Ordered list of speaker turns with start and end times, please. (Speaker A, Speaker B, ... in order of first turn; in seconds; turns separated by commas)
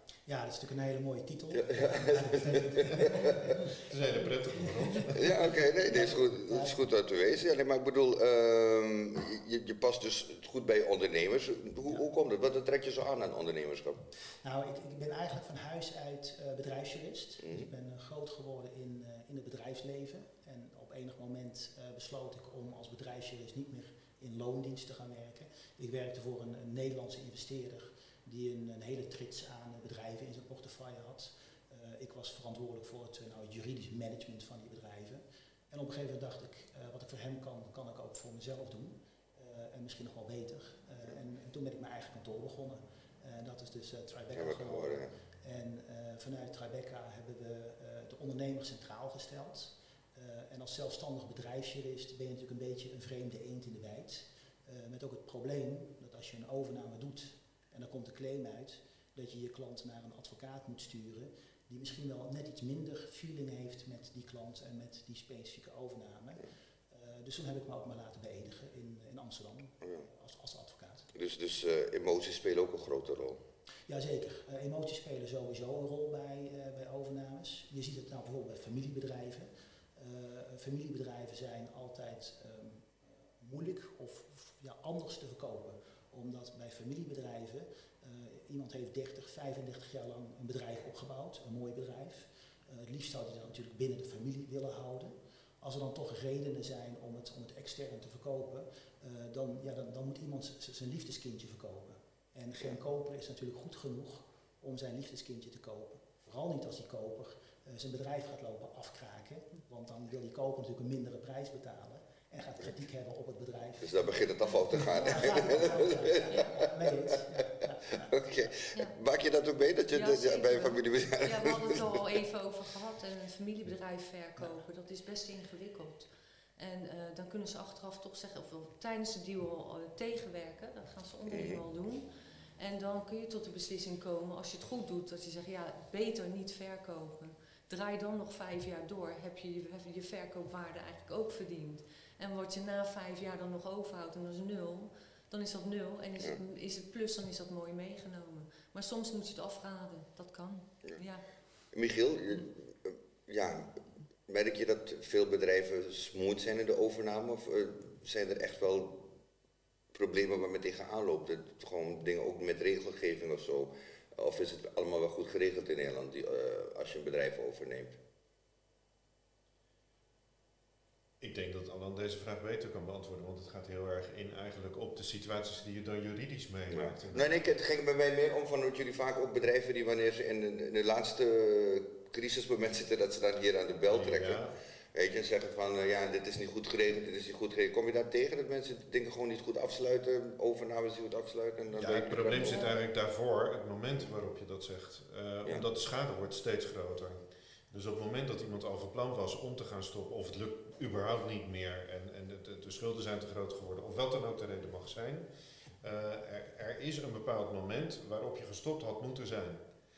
Speaker A: 0.3-3.8, Speaker B: 1.5-3.6, Speaker C: 3.7-5.5, Speaker B: 5.0-14.0, Speaker A: 5.5-6.8, Speaker A: 14.4-71.1, Speaker B: 44.3-45.1, Speaker B: 71.1-73.4, Speaker A: 73.9-118.2, Speaker B: 113.8-116.9, Speaker D: 114.9-116.6, Speaker B: 117.9-122.2, Speaker D: 119.9-132.1, Speaker B: 131.3-131.6, Speaker D: 132.6-151.2, Speaker B: 151.7-159.1, Speaker B: 159.9-168.0, Speaker C: 171.2-177.4, Speaker B: 176.7-184.4, Speaker C: 183.9-184.6, Speaker B: 184.9-192.7, Speaker C: 191.7-205.3, Speaker D: 192.2-192.8, Speaker C: 205.8-209.6